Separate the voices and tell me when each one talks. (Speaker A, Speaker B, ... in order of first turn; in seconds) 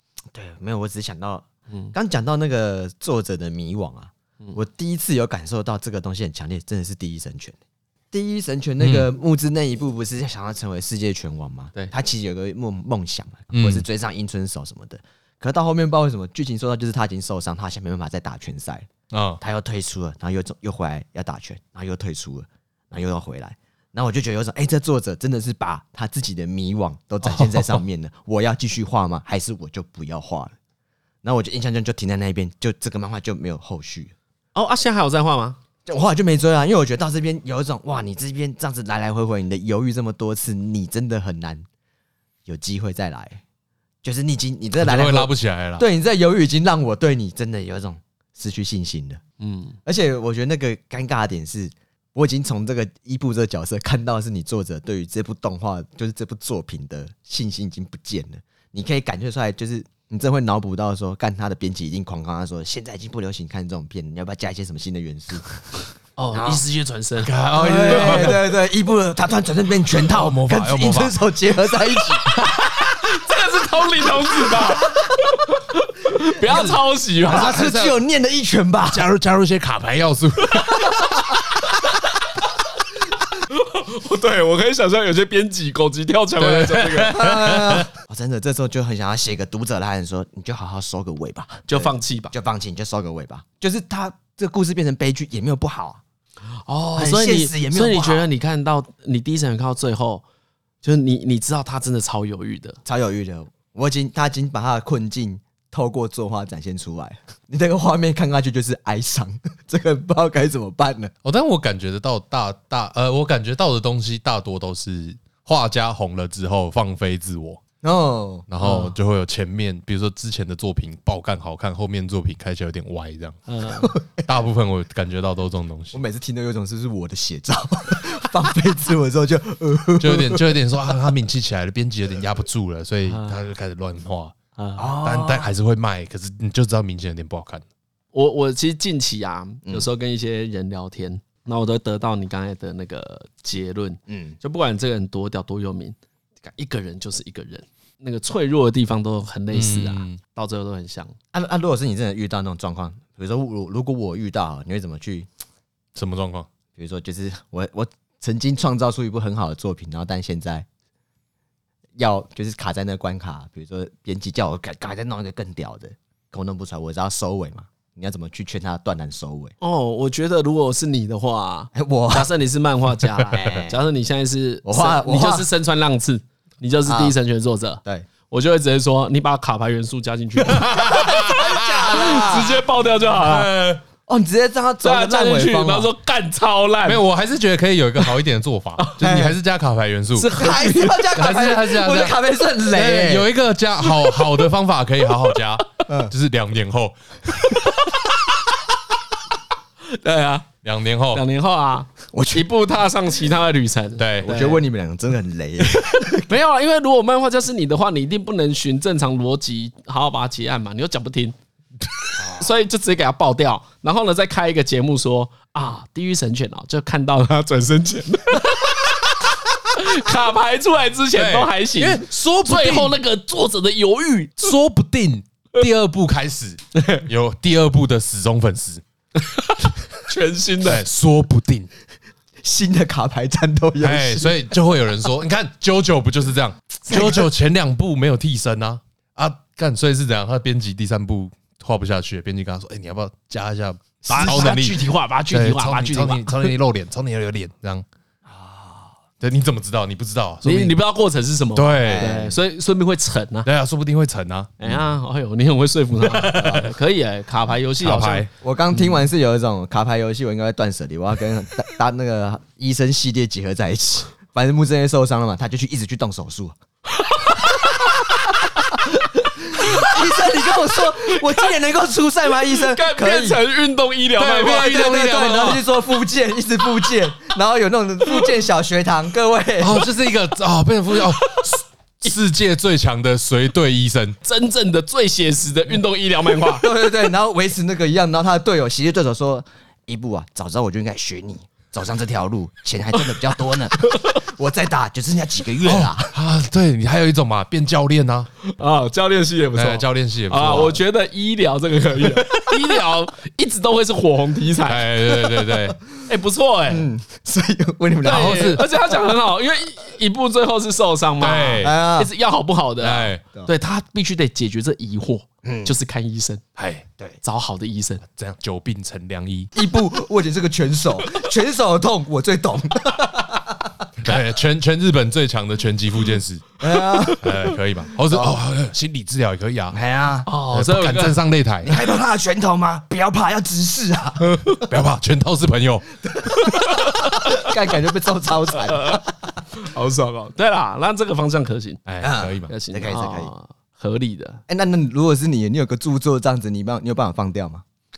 Speaker A: 0.3-7.6, 8.1-18.9, 19.4-30.6, 31.2-34.1, 35.9-41.6, 42.5-43.4, 44.0-49.2, 49.9-65.5, 66.3-66.6, 67.5-72.3, 77.2-79.1, 87.0-96.0, 97.0-98.3, 102.8-111.1, 117.8-118.5, 123.8-124.2, 125.9-130.5, 134.8-135.5, 144.1-144.4, 151.3-155.3, 156.8-160.7, 162.0-169.5, 171.7-172.3, 173.3-173.8, 174.6-175.5, 176.9-177.2, 180.8-182.6, 184.1-185.9, 189.0-189.4, 190.2-193.3, 202.1-202.5, 204.2-206.3, 232.4-234.4, 236.9-237.3, 244.2-244.5, 248.3-248.9, 251.8-252.4, 258.4-266.6, 267.6-273.4, 274.5-279.9, 286.4-296.1, 306.7-308.6, 311.6-312.1, 315.4-315.7, 319.6-324.2, 326.6-327.4, 328.1-328.4, 329.7-330.3, 331.6-334.4, 337.0-339.3, 342.0-343.3, 344.5-347.6
Speaker B: 8.8-9.1, 13.5-13.8, 19.1-19.4, 27.2-27.8, 44.8-45.9, 67.2-68.4, 70.0-71.2, 76.5-76.8, 77.4-78.0, 78.9-80.9, 86.4-87.9, 111.2-117.6, 118.5-123.4, 124.2-126.0, 130.0-134.3, 135.0-137.6, 149.5-150.2, 156.0-156.5, 180.4-182.3, 183.1-183.8, 186.8-190.4, 191.1-197.8, 200.6-201.2, 204.0-204.4, 221.1-223.0, 224.4-228.8, 230.6-231.7, 233.8-247.8, 249.2-250.8, 251.6-252.2, 253.4-254.5, 256.0-256.7, 257.8-258.3, 274.2-275.6, 279.6-284.2, 295.6-298.3, 299.5-300.8, 304.6-305.8, 308.1-308.6, 311.2-311.8, 312.8-313.2, 316.6-316.9, 318.1-319.5, 324.0-326.6, 327.1-329.8, 330.5-331.9, 334.2-336.7, 341.9-342.5
Speaker C: 34.5-35.6, 49.4-49.8, 66.2-67.3, 67.9-68.3, 72.8-77.6, 83.5-87.2, 91.7-92.3, 96.7-100.2, 100.8-102.8, 118.6-118.9, 123.5-123.9, 133.1-133.4, 134.6-134.9, 138.1-151.2, 169.6-183.5, 184.8-187.0, 190.2-191.3, 199.8-200.5, 201.1-204.6, 206.3-211.3, 212.3-219.0, 219.7-224.6, 226.8-227.0, 229.2-230.8, 244.1-246.6, 250.4-253.5, 254.6-258.9, 267.0-267.9, 269.6-269.9, 272.5-274.9, 284.2-286.7, 293.9-294.2, 298.4-304.9, 306.1-306.9, 308.0-316.4, 317.2-318.0, 330.3-331.2, 336.9-337.5, 338.5-341.8, 342.5-344.4